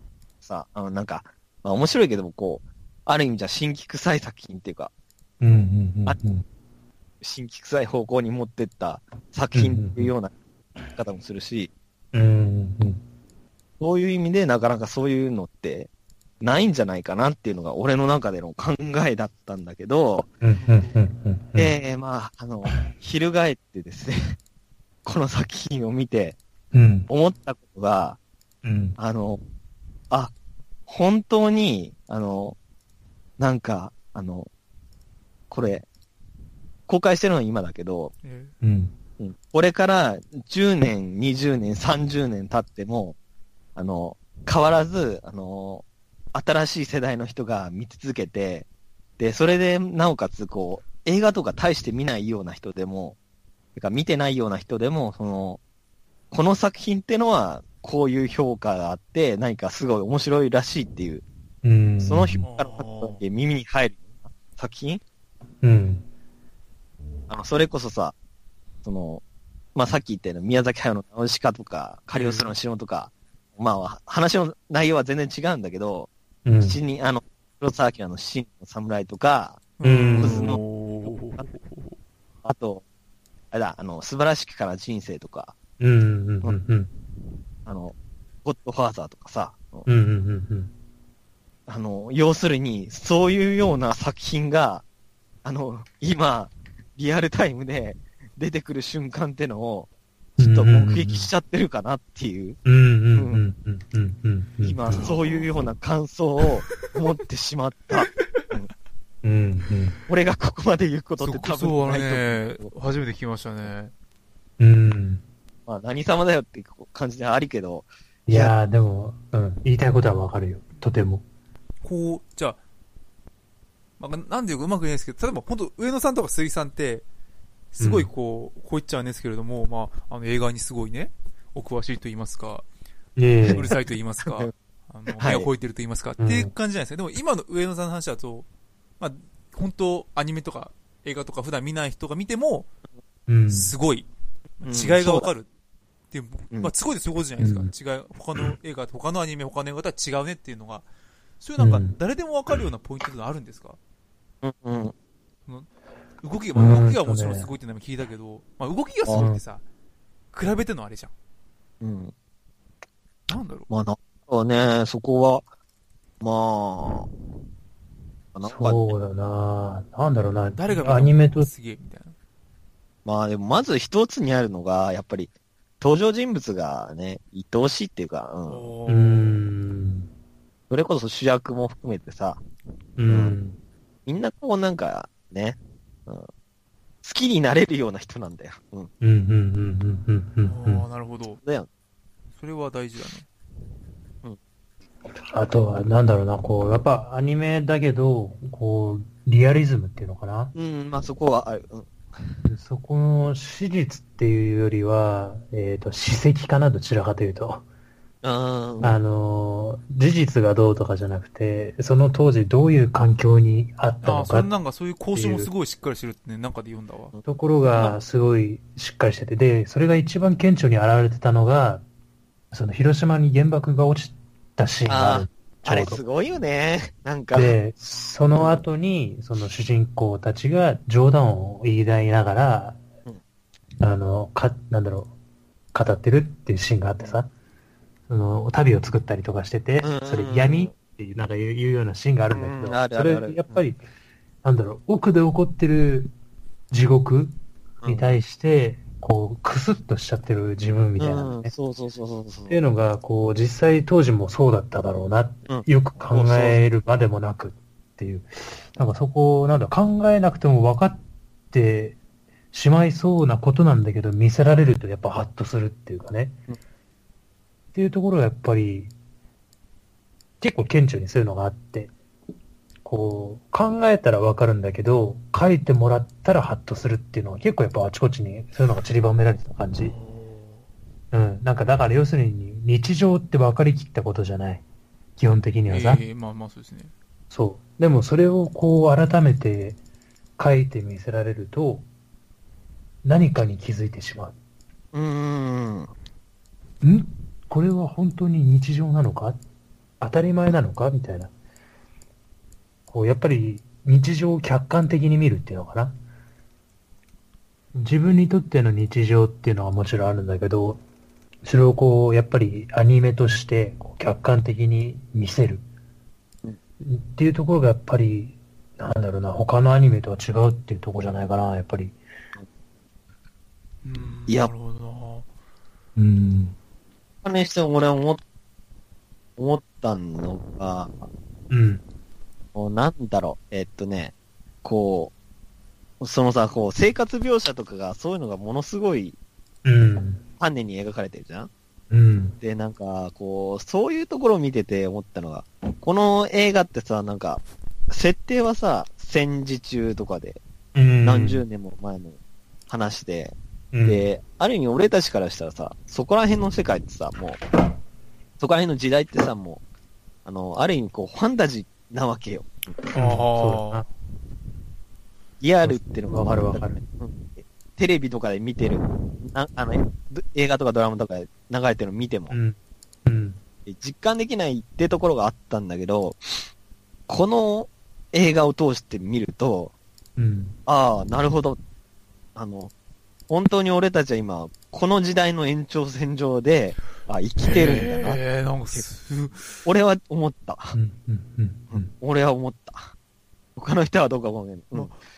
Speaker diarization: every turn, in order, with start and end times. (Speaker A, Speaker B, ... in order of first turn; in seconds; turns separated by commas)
Speaker A: 0.4-4.9, Speaker B: 5.4-6.4, Speaker A: 7.2-10.3, Speaker B: 9.6-10.1, Speaker A: 10.9-11.7, Speaker B: 12.1-13.0, Speaker A: 13.8-15.9, Speaker A: 16.4-20.3, Speaker B: 20.4-21.7, Speaker A: 21.6-24.4, Speaker A: 25.1-26.4, Speaker B: 26.7-27.1, Speaker A: 27.1-28.2, Speaker B: 28.6-29.0, Speaker A: 29.0-29.4, Speaker A: 30.9-32.6, Speaker A: 33.4-34.5, Speaker A: 35.5-35.9, Speaker A: 36.9-38.1, Speaker C: 38.2-38.5, Speaker B: 38.6-39.0, Speaker A: 39.2-43.2, Speaker A: 43.8-48.7, Speaker A: 49.2-53.2, Speaker A: 53.8-55.6, Speaker A: 56.3-61.2, Speaker B: 61.6-62.5, Speaker A: 62.0-65.0, Speaker C: 62.4-63.2, Speaker B: 65.6-66.0, Speaker A: 67.3-68.2, Speaker A: 68.8-69.2, Speaker A: 69.8-76.1, Speaker C: 72.1-72.5, Speaker B: 76.5-76.8, Speaker A: 76.6-80.6, Speaker C: 79.8-82.0, Speaker B: 79.8-80.5, Speaker A: 82.5-82.8, Speaker A: 83.5-85.5, Speaker B: 85.8-86.9, Speaker A: 87.7-89.9, Speaker B: 89.9-90.7, Speaker A: 91.7-94.8, Speaker A: 95.4-99.9, Speaker B: 100.4-101.3, Speaker A: 100.5-102.6, Speaker B: 102.7-105.1, Speaker A: 103.2-103.4, Speaker A: 104.6-108.7, Speaker C: 105.0-105.5, Speaker B: 109.2-110.0, Speaker A: 110.1-112.7, Speaker C: 111.2-113.9, Speaker B: 114.6-115.2, Speaker A: 115.7-118.5, Speaker B: 118.3-121.2, Speaker C: 121.8-122.6, Speaker C: 124.0-127.0, Speaker C: 127.7-132.7, Speaker B: 127.8-128.1, Speaker B: 133.2-133.7, Speaker C: 133.5-138.5, Speaker A: 134.2-134.5, Speaker A: 135.2-135.5, Speaker B: 136.2-136.5, Speaker C: 139.0-142.7, Speaker B: 143.3-143.7, Speaker C: 143.5-144.1, Speaker C: 144.6-145.5, Speaker A: 144.7-145.3, Speaker C: 146.1-150.9, Speaker B: 147.4-147.7, Speaker C: 151.4-153.8, Speaker B: 151.6-151.9, Speaker A: 154.4-154.9, Speaker C: 156.2-159.6, Speaker B: 156.6-157.5, Speaker B: 159.2-159.4, Speaker C: 160.3-161.1, Speaker A: 161.8-162.1, Speaker C: 163.3-163.7, Speaker A: 163.7-165.4, Speaker A: 166.2-167.1, Speaker A: 168.3-168.9, Speaker B: 168.4-171.5, Speaker C: 170.6-172.2, Speaker A: 173.1-178.7, Speaker C: 178.5-179.4, Speaker B: 178.9-180.1, Speaker A: 180.7-182.4, Speaker B: 183.0-183.6, Speaker A: 183.1-183.4, Speaker A: 184.1-186.3, Speaker A: 187.0-188.9, Speaker B: 189.0-190.8, Speaker C: 190.4-191.4, Speaker C: 192.3-193.3, Speaker B: 195.3-200.5, Speaker A: 200.5-201.9, Speaker B: 202.4-207.6, Speaker A: 208.2-209.0, Speaker B: 208.8-214.5, Speaker C: 214.0-217.1, Speaker B: 215.1-215.5, Speaker B: 217.3-221.8, Speaker B: 222.5-226.0, Speaker A: 224.9-227.6, Speaker B: 227.3-232.8, Speaker B: 233.8-235.1, Speaker B: 235.7-237.3, Speaker B: 238.1-243.8, Speaker A: 239.8-240.7, Speaker A: 242.3-243.7, Speaker B: 244.4-246.1, Speaker B: 246.7-247.3, Speaker A: 247.8-248.2, Speaker B: 247.9-251.5, Speaker A: 251.0-252.6, Speaker B: 252.5-262.0, Speaker A: 255.5-256.6, Speaker B: 262.5-266.4, Speaker B: 267.7-268.9, Speaker B: 270.4-271.9, Speaker B: 272.9-279.9, Speaker C: 279.8-280.7, Speaker B: 281.1-284.6, Speaker B: 285.2-286.0, Speaker C: 285.7-286.9, Speaker B: 287.3-289.8, Speaker B: 290.4-291.9, Speaker B: 293.1-294.4, Speaker A: 294.9-295.9, Speaker B: 296.8-299.4, Speaker B: 300.0-301.3, Speaker B: 302.9-306.0, Speaker B: 307.7-310.8, Speaker B: 311.4-315.6, Speaker B: 316.8-322.0, Speaker C: 323.8-325.3, Speaker B: 326.0-326.6, Speaker A: 327.2-328.2, Speaker A: 329.4-331.0, Speaker B: 331.5-331.8, Speaker A: 332.6-335.1, Speaker A: 336.0-339.2, Speaker B: 339.6-340.2, Speaker A: 340.4-341.5, Speaker B: 341.9-342.4, Speaker A: 342.4-350.4, Speaker B: 350.8-351.4, Speaker A: 351.0-357.4, Speaker B: 353.7-354.1, Speaker A: 358.4-359.6, Speaker A: 360.2-362.8, Speaker C: 362.9-363.8, Speaker B: 362.9-363.9, Speaker A: 365.4-372.4, Speaker B: 365.6-366.8, Speaker B: 372.3-373.4, Speaker A: 373.7-376.5, Speaker A: 377.1-379.7, Speaker B: 380.2-380.6, Speaker A: 380.7-381.6, Speaker A: 382.4-382.7, Speaker A: 383.3-388.9, Speaker C: 387.5-389.5, Speaker A: 389.6-390.8, Speaker B: 390.7-391.9, Speaker A: 391.7-392.9, Speaker A: 393.6-394.9